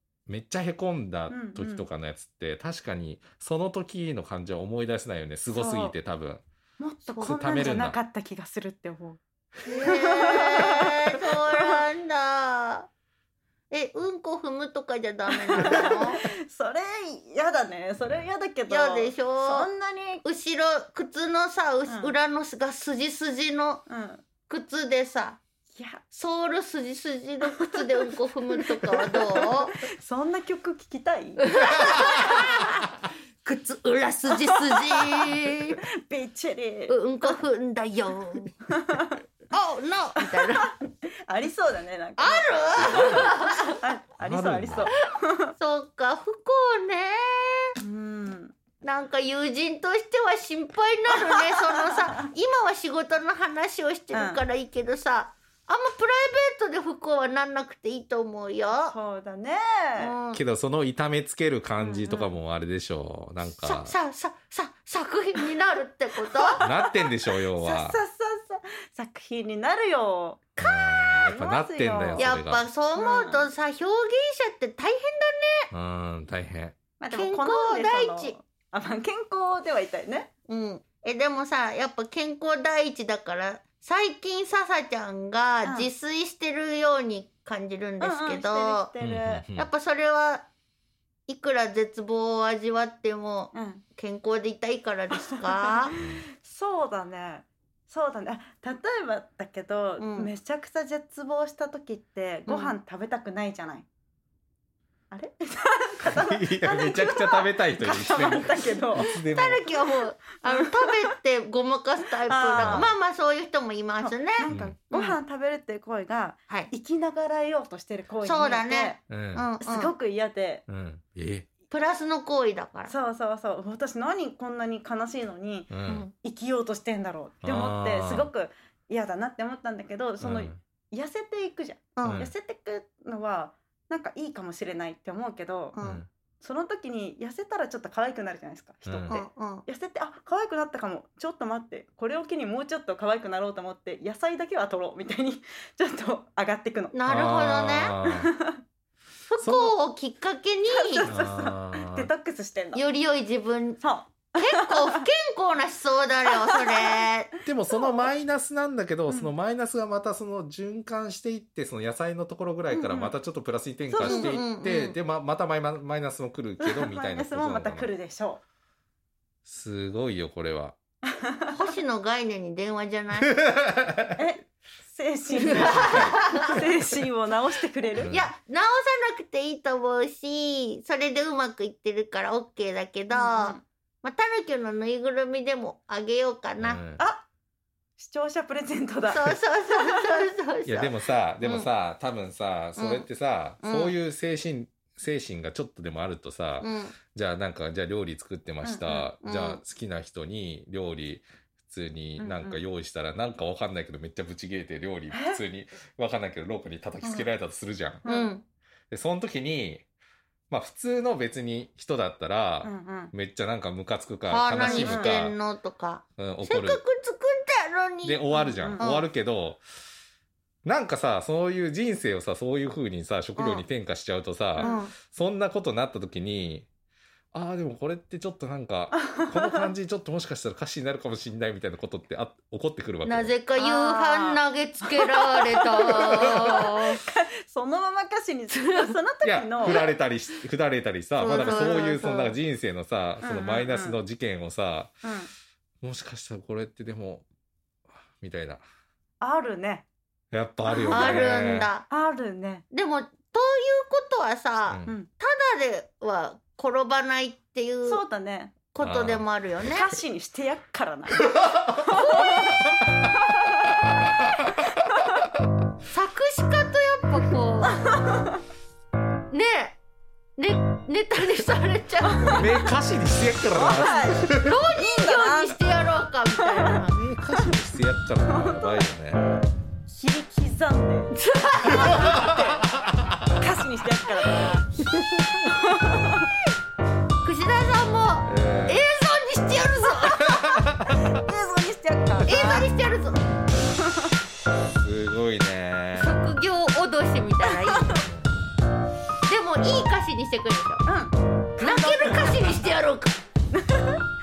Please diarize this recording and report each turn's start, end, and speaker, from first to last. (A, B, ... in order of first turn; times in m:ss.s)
0:00.3-0:06.4 A
0:01.3-0:01.9 B
0:05.5-0:06.0 B
0:06.8-0:11.8 B
0:07.1-0:07.7 C
0:07.2-0:08.0 A
0:09.7-0:12.9 C
0:13.7-0:16.2 C
0:15.3-0:20.2 B
0:18.7-0:19.7 C
0:20.2-0:23.8 C
0:21.9-0:22.2 B
0:23.9-0:24.2 B
0:24.5-0:25.4 C
0:25.8-0:26.0 B
0:26.1-0:29.8 C
0:27.5-0:31.4 B
0:31.4-0:32.8 C
0:33.4-0:35.8 C
0:34.4-0:35.5 B
0:36.1-0:37.4 B
0:36.9-0:38.6 C
0:38.7-0:39.2 B
0:39.5-0:40.7 C
0:41.3-0:45.5 B
0:42.2-0:43.8 C
0:42.8-0:43.3 A
0:44.2-0:44.9 A
0:45.6-0:47.7 C
0:47.8-0:48.5 B
0:48.8-0:59.0 C
0:51.6-0:52.1 B
0:54.1-0:54.4 B
0:58.8-1:00.1 B
1:00.0-1:00.4 C
1:00.3-1:04.0 A
1:01.8-1:02.3 B
1:03.4-1:06.6 C
1:06.4-1:10.4 B
1:06.6-1:08.0 A
1:10.6-1:11.3 C
1:10.6-1:12.7 A
1:11.2-1:12.3 B
1:12.2-1:15.7 C
1:13.0-1:13.5 B
1:15.7-1:16.8 A
1:17.0-1:20.3 B
1:17.1-1:18.4 C
1:20.5-1:28.9 C
1:25.6-1:25.9 B
1:28.0-1:29.5 B
1:29.0-1:29.7 A
1:29.6-1:30.5 C
1:31.3-1:36.0 C
1:33.5-1:33.8 B
1:36.0-1:36.2 A
1:36.0-1:43.8 B
1:40.0-1:40.3 C
1:42.5-1:42.8 C
1:45.1-1:49.0 B
1:46.0-1:49.6 A
1:49.2-1:55.2 C
1:50.4-1:50.9 B
1:52.3-1:52.9 B
1:52.5-1:52.9 A
1:54.0-1:59.0 B
1:54.5-1:54.8 A
1:58.2-1:59.9 C
1:59.1-1:59.5 A
1:59.6-2:00.6 B
2:00.7-2:01.5 A
2:01.7-2:02.9 C
2:02.9-2:15.8 B
2:05.7-2:06.1 A
2:05.9-2:06.1 C
2:07.4-2:08.3 A
2:10.2-2:10.6 A
2:12.0-2:12.3 C
2:12.0-2:12.3 A
2:15.7-2:16.0 C
2:15.8-2:16.1 A
2:16.4-2:27.0 B
2:19.1-2:19.6 C
2:26.9-2:27.9 C
2:27.1-2:28.3 A
2:28.0-2:28.6 B
2:29.3-2:31.1 C
2:29.4-2:29.8 A
2:30.7-2:32.8 B
2:31.1-2:32.1 A
2:32.7-2:33.8 C
2:33.8-2:35.0 B
2:34.4-2:37.4 C
2:36.4-2:37.0 B
2:37.5-2:47.9 A
2:42.7-2:43.2 B
2:43.9-2:45.0 C
2:43.9-2:44.3 B
2:46.6-2:48.4 B
2:49.4-2:50.8 A
2:51.2-2:51.5 B
2:51.5-2:53.4 C
2:53.2-2:54.2 A
2:54.2-2:58.1 B
2:55.6-2:56.2 A
2:55.7-2:56.5 C
2:57.9-2:58.3 A
2:58.1-3:06.8 C
3:03.1-3:03.6 B
3:06.6-3:07.0 A
3:07.0-3:07.2 B
3:08.0-3:10.3 B
3:09.1-3:11.7 C
3:10.7-3:28.0 A
3:12.8-3:13.1 C
3:13.6-3:14.0 C
3:16.6-3:17.0 C
3:18.6-3:19.1 B
3:19.2-3:19.6 C
3:22.2-3:22.6 B
3:25.1-3:25.4 B
3:27.0-3:27.3 B
3:28.0-3:28.3 B
3:28.1-3:28.4 C
3:28.9-3:29.8 A
3:30.5-3:35.4 A
3:32.6-3:33.1 B
3:34.3-3:38.2 C
3:34.6-3:35.3 B
3:36.2-3:36.8 A
3:38.0-3:39.6 A
3:38.3-3:38.9 B
3:38.8-3:39.1 C
3:40.6-3:46.7 A
3:43.4-3:43.6 C
3:44.6-3:44.8 B
3:44.6-3:44.9 C
3:47.3-3:53.3 A
3:49.3-3:49.7 B
3:53.0-3:57.0 C
3:53.6-3:59.8 B
3:56.0-3:56.5 A
3:58.5-3:59.0 C
3:59.2-4:05.0 A
4:01.2-4:02.2 C
4:01.3-4:02.4 B
4:03.2-4:04.0 B
4:05.0-4:05.3 B
4:05.8-4:07.2 A
4:08.2-4:08.6 A
4:09.2-4:09.9 B
4:10.3-4:11.7 A
4:10.7-4:12.6 B
4:10.9-4:11.9 C
4:12.7-4:18.0 C
4:14.7-4:14.9 A
4:17.8-4:18.6 B
4:18.7-4:19.9 C
4:18.8-4:19.2 A
4:19.7-4:23.7 B
4:21.9-4:22.6 C
4:25.9-4:27.8 C
4:27.7-4:28.4 B
4:29.3-4:29.8 C
4:30.4-4:32.5 C
4:32.2-4:32.4 B
4:32.3-4:34.6 A
4:33.5-4:35.6 B
4:34.3-4:37.0 C
4:36.4-4:36.8 B
4:36.9-4:39.5 A
4:38.3-4:38.9 B
4:39.9-4:41.2 B
4:41.1-4:42.1 C
4:41.7-4:42.7 B
4:41.9-4:42.3 A
4:43.4-4:44.7 B
4:45.5-4:46.3 B
4:47.2-4:50.7 C
4:48.2-4:48.8 A
4:50.4-4:50.9 A
4:50.9-4:52.7 B
4:52.3-4:53.2 C
4:53.8-4:54.1 B
4:54.8-4:56.2 A
4:56.0-4:58.0 C
4:57.5-4:58.0 B
4:59.3-5:00.8 C
5:00.9-5:02.4 B
5:01.6-5:03.2 C
5:03.5-5:04.0 B